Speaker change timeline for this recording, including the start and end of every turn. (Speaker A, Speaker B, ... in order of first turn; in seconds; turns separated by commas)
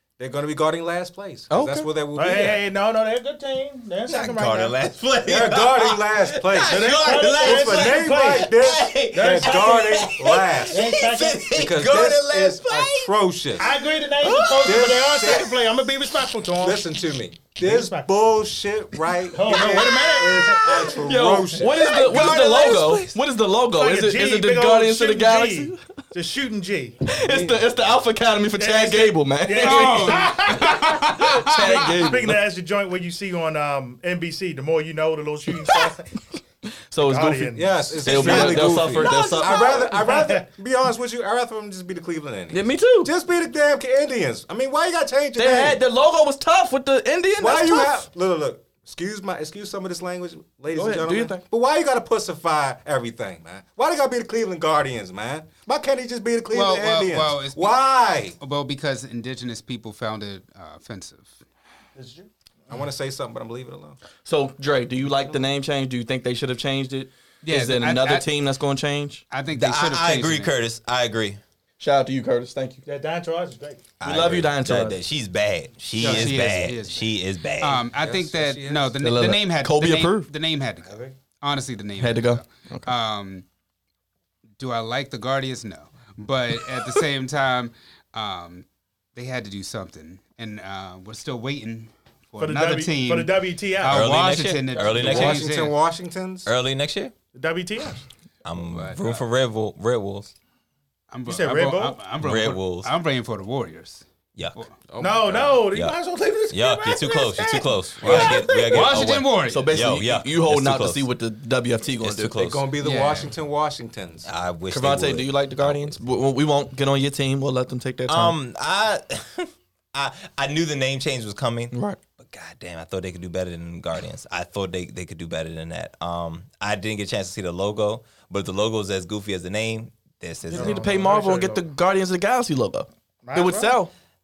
Speaker A: 0.2-2.6, Speaker B: 1.5-1.9, Speaker C: 2.1-4.8, Speaker D: 4.0-15.4, Speaker A: 5.2-13.7, Speaker C: 6.7-8.5, Speaker C: 9.1-10.1, Speaker C: 10.7-11.5, Speaker C: 13.6-16.9, Speaker A: 14.6-15.5, Speaker A: 16.5-22.0, Speaker C: 17.6-18.2, Speaker C: 19.3-21.0, Speaker B: 20.8-25.8, Speaker D: 21.7-23.2, Speaker C: 23.8-27.0, Speaker B: 27.1-32.4, Speaker A: 27.3-27.6, Speaker C: 28.6-36.1, Speaker E: 29.6-31.9, Speaker B: 35.6-35.9, Speaker B: 36.9-39.9, Speaker C: 37.0-40.5, Speaker A: 37.5-45.8, Speaker B: 42.5-43.1, Speaker B: 45.4-48.0, Speaker A: 47.4-58.4, Speaker B: 50.7-51.4, Speaker E: 56.5-57.7, Speaker E: 58.4-61.4, Speaker C: 62.0-62.7, Speaker A: 62.7-64.0, Speaker B: 64.2-69.2, Speaker E: 67.4-68.3, Speaker E: 69.3-70.6, Speaker D: 69.5-71.4, Speaker B: 71.8-72.8, Speaker C: 72.8-73.8, Speaker D: 74.0-77.9, Speaker B: 74.0-75.0, Speaker E: 75.9-83.4, Speaker A: 77.9-79.0, Speaker B: 79.0-80.3, Speaker A: 80.8-81.1, Speaker B: 82.0-82.9, Speaker E: 84.6-95.8, Speaker C: 92.4-94.1, Speaker D: 93.9-95.5, Speaker A: 94.8-96.5, Speaker D: 96.5-97.1, Speaker C: 97.3-98.0, Speaker D: 98.4-100.3, Speaker A: 98.6-99.2, Speaker E: 101.1-104.7, Speaker C: 101.3-102.0, Speaker D: 102.2-102.9, Speaker A: 104.9-105.6, Speaker C: 105.0-108.9, Speaker D: 106.5-111.0, Speaker E: 108.0-109.7, Speaker B: 109.5-112.5, Speaker D: 112.0-112.7, Speaker A: 112.4-114.3, Speaker E: 112.8-113.3, Speaker D: 114.2-116.0, Speaker B: 114.7-118.3, Speaker D: 118.1-130.9, Speaker B: 121.7-122.0, Speaker B: 130.5-133.9, Speaker C: 130.5-131.7, Speaker C: 133.2-133.8